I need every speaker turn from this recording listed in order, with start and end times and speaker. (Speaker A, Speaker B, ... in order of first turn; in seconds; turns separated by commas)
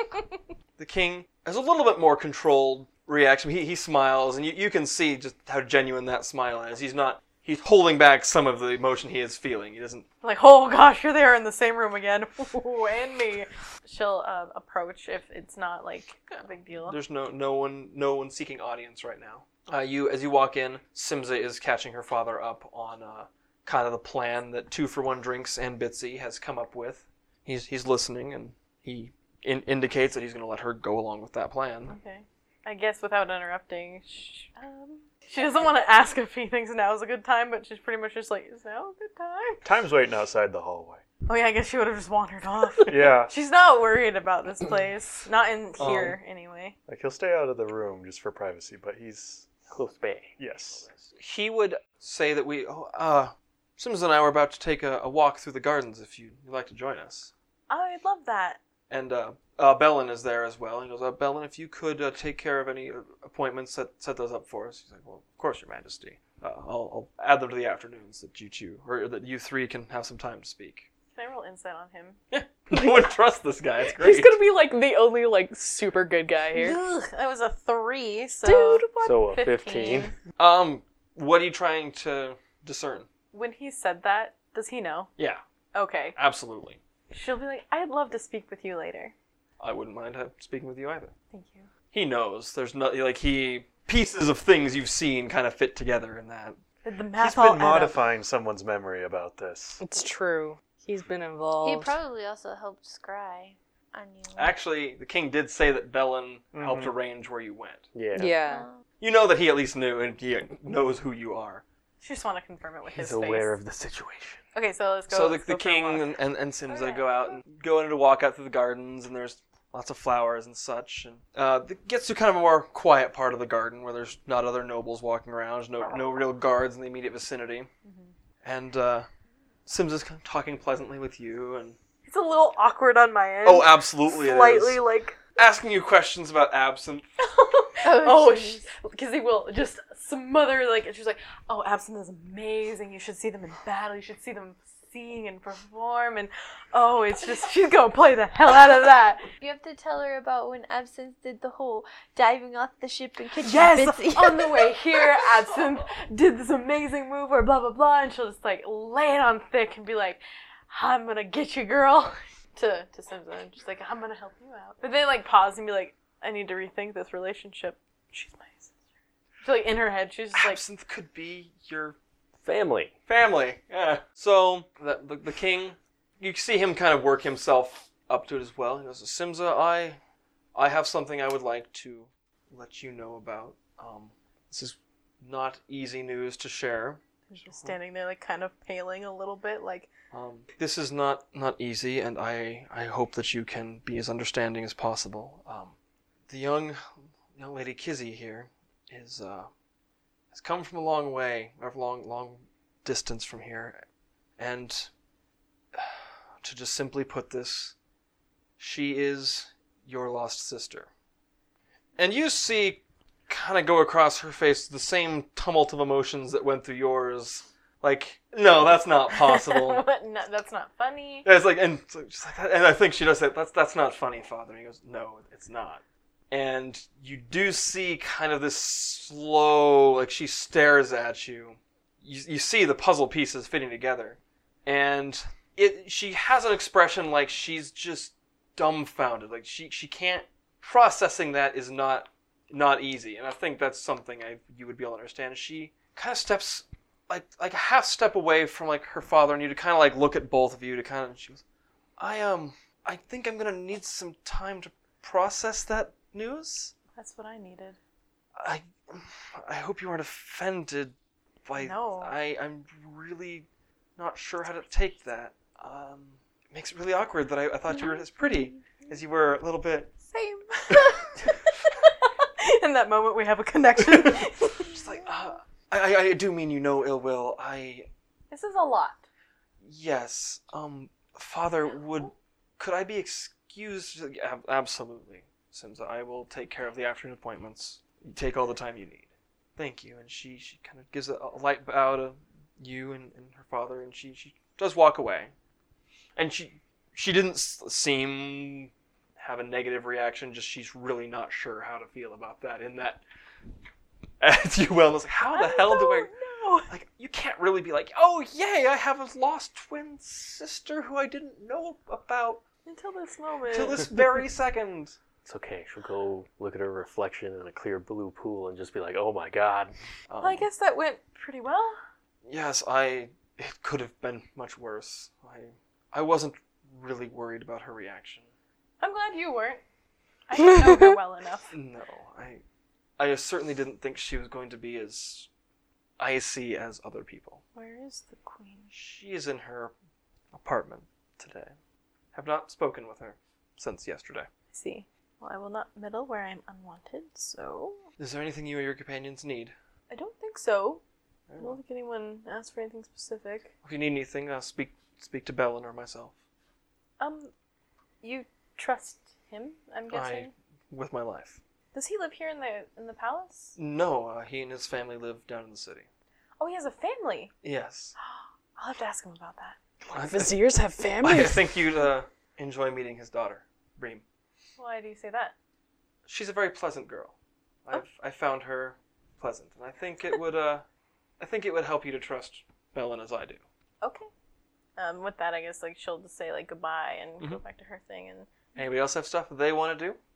Speaker A: 0.8-10.1, Speaker B: 10.2-17.0, Speaker A: 16.3-31.9, Speaker B: 31.9-39.6, Speaker C: 39.6-41.0, Speaker B: 41.2-46.8, Speaker C: 42.8-43.3, Speaker A: 45.8-46.2, Speaker C: 46.9-49.5, Speaker D: 49.7-50.4, Speaker C: 50.4-50.9, Speaker A: 51.1-57.3, Speaker B: 57.7-58.6, Speaker A: 58.9-70.9, Speaker B: 71.1-72.2, Speaker A: 72.3-74.4, Speaker E: 72.7-73.0, Speaker E: 74.0-76.8, Speaker B: 76.5-80.1, Speaker E: 78.4-79.1, Speaker D: 79.0-80.1, Speaker A: 80.4-83.1, Speaker B: 83.3-85.1, Speaker B: 85.7-86.2, Speaker A: 86.2-86.8, Speaker B: 87.1-89.1, Speaker A: 89.6-91.1, Speaker B: 91.3-91.7, Speaker A: 91.9-96.6, Speaker B: 96.8-98.0, Speaker C: 97.2-99.8, Speaker E: 99.8-102.0, Speaker F: 101.6-104.5, Speaker A: 104.3-107.9, Speaker C: 106.5-106.9, Speaker D: 107.9-108.4, Speaker E: 108.1-108.7, Speaker F: 108.4-108.8, Speaker A: 109.0-111.6, Speaker B: 112.0-113.5, Speaker D: 112.9-114.4, Speaker B: 114.5-116.1, Speaker A: 115.1-127.7, Speaker B: 116.7-117.4, Speaker B: 127.8-128.1, Speaker A: 128.4-129.1, Speaker A: 129.7-131.8, Speaker B: 132.1-135.2, Speaker A: 133.4-134.8, Speaker A: 135.3-137.1, Speaker B: 137.2-149.3, Speaker F: 137.8-138.7, Speaker F: 149.4-155.3, Speaker B: 153.4-168.7, Speaker B: 169.4-170.6, Speaker A: 170.3-172.0, Speaker D: 172.4-172.9, Speaker A: 173.1-180.0, Speaker A: 180.5-187.8, Speaker B: 187.3-189.9, Speaker A: 190.1-195.8, Speaker A: 196.3-199.5, Speaker A: 200.3-203.8, Speaker A: 204.4-204.9, Speaker A: 205.7-207.7, Speaker A: 208.6-210.9, Speaker A: 212.0-219.8, Speaker B: 219.1-221.2, Speaker A: 221.2-251.4, Speaker A: 252.0-256.7, Speaker B: 256.9-257.8, Speaker A: 258.4-269.9, Speaker B: 261.6-262.1, Speaker B: 270.1-274.8, Speaker A: 273.8-277.9, Speaker B: 278.3-279.0, Speaker A: 279.6-295.3, Speaker A: 296.1-303.0, Speaker A: 304.2-306.1, Speaker B: 305.3-306.7, Speaker A: 306.7-312.4, Speaker B: 312.6-313.9, Speaker A: 313.5-315.0, Speaker D: 315.2-319.7, Speaker A: 320.1-320.4, Speaker B: 320.2-321.8, Speaker A: 322.2-328.3, Speaker B: 328.8-329.6, Speaker B: 330.3-331.5, Speaker A: 331.5-332.4, Speaker A: 333.0-335.3, Speaker A: 336.0-337.4, Speaker B: 337.5-338.7, Speaker A: 338.7-339.7, Speaker A: 340.3-341.6, Speaker A: 342.1-344.3, Speaker B: 344.5-347.8, Speaker A: 348.0-349.5, Speaker B: 349.9-350.8, Speaker A: 351.3-351.6, Speaker B: 351.4-353.5, Speaker A: 353.6-356.1, Speaker B: 357.0-357.3, Speaker B: 358.0-360.3, Speaker A: 359.9-361.4, Speaker B: 361.7-363.6, Speaker A: 363.6-365.9, Speaker B: 366.4-367.3, Speaker A: 367.4-367.9, Speaker B: 368.0-369.6, Speaker E: 369.9-371.6, Speaker A: 369.9-370.4, Speaker A: 371.0-374.0, Speaker B: 374.6-375.3, Speaker A: 376.1-377.1, Speaker A: 377.6-380.6, Speaker A: 381.2-383.4, Speaker B: 383.8-384.1, Speaker B: 384.8-388.4, Speaker A: 388.6-390.0